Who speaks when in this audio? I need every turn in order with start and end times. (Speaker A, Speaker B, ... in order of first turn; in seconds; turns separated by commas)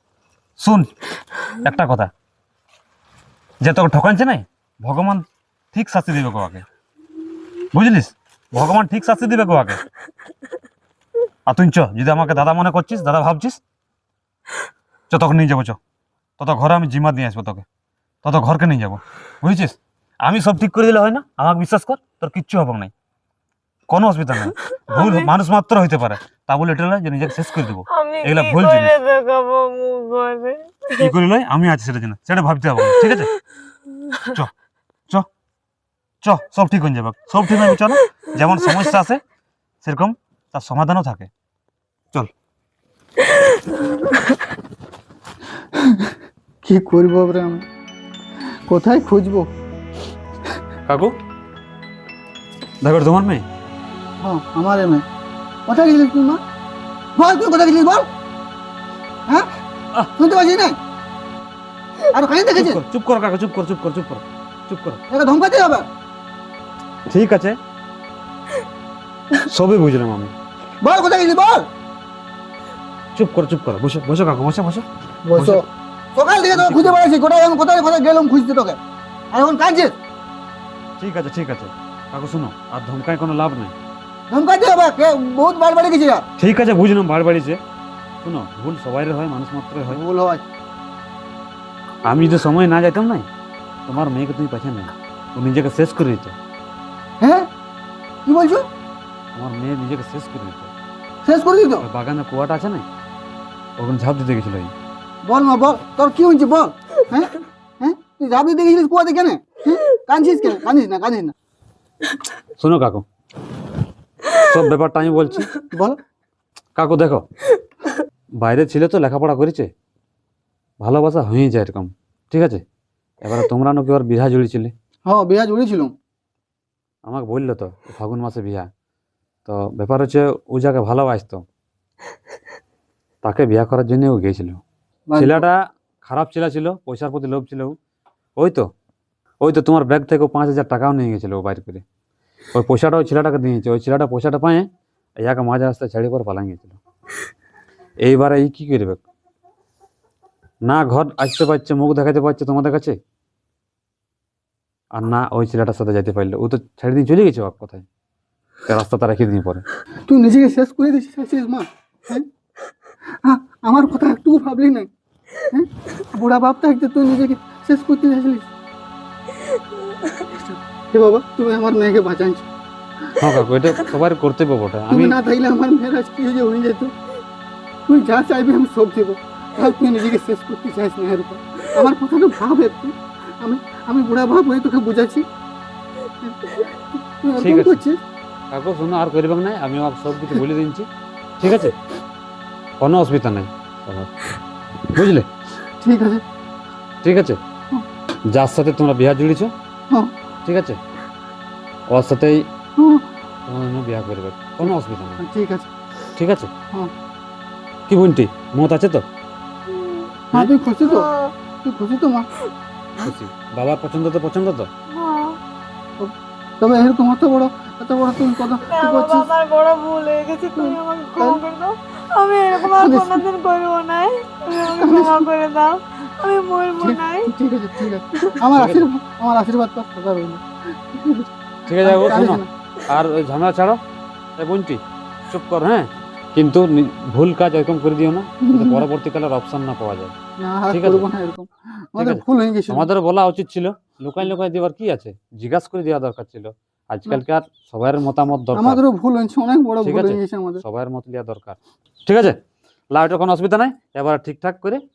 Speaker A: 0.6-0.9, Speaker A: 1.6-2.1, Speaker A: 3.6-6.7, Speaker A: 7.7-9.8, Speaker A: 11.5-13.6, Speaker A: 15.1-15.8, Speaker A: 16.4-17.6, Speaker A: 18.2-22.9, Speaker A: 23.9-28.9, Speaker B: 24.7-25.3, Speaker B: 27.9-31.1, Speaker A: 31.0-33.3, Speaker B: 32.9-33.3, Speaker B: 34.0-34.3, Speaker A: 36.2-39.2, Speaker A: 39.8-41.3, Speaker B: 43.3-44.3, Speaker C: 45.7-47.7, Speaker C: 48.7-49.5, Speaker A: 50.9-51.2, Speaker A: 52.8-53.5, Speaker C: 54.2-55.0, Speaker C: 55.7-56.4, Speaker C: 57.2-58.1, Speaker C: 60.2-60.8, Speaker C: 62.1-62.8, Speaker A: 62.5-65.0, Speaker C: 65.1-65.9, Speaker A: 67.1-67.6, Speaker A: 69.4-70.3, Speaker C: 70.8-71.7, Speaker A: 73.2-74.8, Speaker C: 75.3-78.8, Speaker A: 75.4-75.6, Speaker A: 76.5-77.1, Speaker C: 79.3-80.0, Speaker A: 81.0-83.8, Speaker C: 84.3-86.3, Speaker A: 86.4-87.6, Speaker A: 88.2-90.0, Speaker C: 89.9-90.5, Speaker A: 92.0-93.3, Speaker A: 93.9-96.4, Speaker C: 97.2-97.5, Speaker C: 98.3-98.7, Speaker A: 99.3-100.7, Speaker C: 101.2-101.9, Speaker A: 101.8-102.8, Speaker A: 103.8-104.7, Speaker C: 105.3-111.3, Speaker A: 112.6-113.0, Speaker A: 114.4-115.5, Speaker C: 115.7-116.0, Speaker A: 116.8-117.3, Speaker A: 118.4-119.7, Speaker A: 120.8-122.6, Speaker A: 123.2-124.7, Speaker C: 125.1-125.9, Speaker A: 127.0-128.7, Speaker A: 129.5-131.4, Speaker A: 133.2-134.6, Speaker C: 135.1-135.4, Speaker A: 135.2-137.8, Speaker A: 138.4-138.7, Speaker A: 139.4-141.8, Speaker A: 142.5-146.8, Speaker A: 148.0-149.0, Speaker A: 150.6-153.0, Speaker A: 154.9-157.9, Speaker A: 158.7-159.7, Speaker C: 160.1-162.3, Speaker C: 163.2-164.9, Speaker C: 165.5-168.5, Speaker C: 170.3-172.5, Speaker A: 173.2-175.2, Speaker C: 174.9-176.9, Speaker C: 177.9-185.2, Speaker C: 186.2-188.0, Speaker A: 187.4-187.8, Speaker A: 188.5-190.9, Speaker A: 191.4-191.8, Speaker A: 192.8-194.2, Speaker A: 194.9-195.3, Speaker C: 195.8-196.2, Speaker A: 197.0-197.4, Speaker A: 198.3-199.5, Speaker C: 199.9-200.2, Speaker A: 200.4-200.8, Speaker A: 201.9-202.5, Speaker C: 202.8-203.1, Speaker A: 203.5-205.2, Speaker C: 204.6-205.7, Speaker A: 206.2-206.5, Speaker A: 207.9-209.1, Speaker C: 210.3-212.3, Speaker B: 210.8-211.3, Speaker A: 213.0-214.7, Speaker B: 214.9-215.4, Speaker C: 216.0-219.3, Speaker B: 218.7-227.3, Speaker C: 220.6-221.4, Speaker C: 222.6-223.2, Speaker C: 224.5-225.3, Speaker C: 226.8-232.5, Speaker A: 228.5-228.9, Speaker A: 231.7-233.8, Speaker A: 234.4-240.2, Speaker C: 238.4-238.8, Speaker C: 240.4-242.9, Speaker A: 240.7-241.1, Speaker A: 242.0-248.8, Speaker C: 248.5-250.6, Speaker A: 249.8-252.4, Speaker A: 252.9-254.8